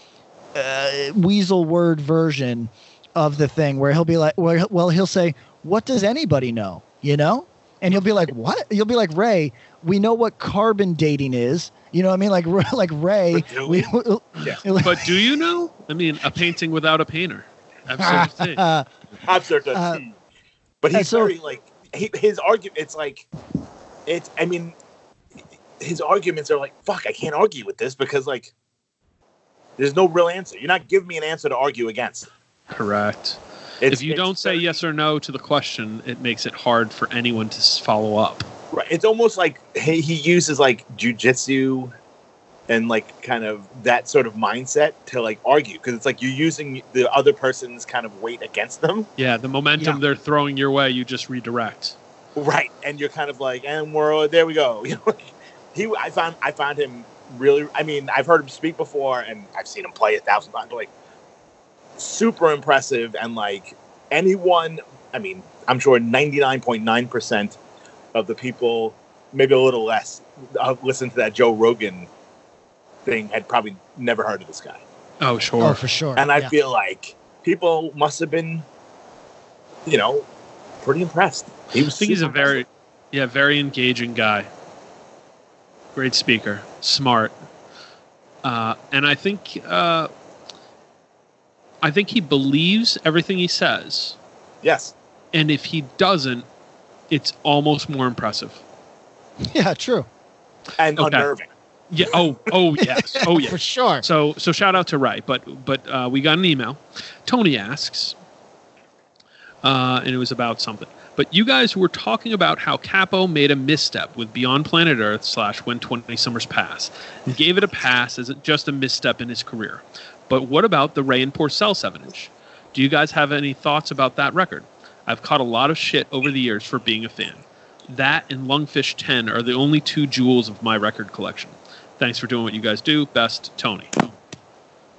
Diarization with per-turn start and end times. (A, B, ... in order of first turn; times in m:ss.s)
0:00.6-0:15.2 A
0:13.3-0:13.9 B
0:14.4-0:18.6 C
0:18.0-0:18.9 A
0:19.2-0:20.2 B
0:19.7-0:20.0 A
0:20.8-0:23.3 B
0:20.9-0:21.3 A
0:24.1-0:24.8 B
0:25.8-0:28.5 B
0:29.8-0:32.3 B
0:32.7-0:38.5 C
0:33.8-0:34.6 B
0:38.7-0:41.9 B
0:42.7-0:49.1 B
0:49.2-0:52.0 C
0:52.4-1:00.9 B
1:02.0-1:07.6 B
1:08.1-1:12.1 B
1:13.1-1:14.8 B
1:15.2-1:15.8 C
1:15.6-1:16.5 A
1:16.2-1:18.6 B
1:19.9-1:20.2 B
1:20.8-1:22.6 B
1:22.0-1:24.5 C
1:26.0-1:27.3 C
1:28.4-1:30.1 C
1:31.8-1:34.2 C
1:34.6-1:34.9 B
1:35.3-1:36.4 C
1:37.1-1:38.6 C
1:39.4-1:40.1 A
1:40.8-1:41.5 B
1:41.0-1:41.3 C
1:41.9-1:48.2 C
1:42.8-1:44.0 A
1:49.6-2:14.0 C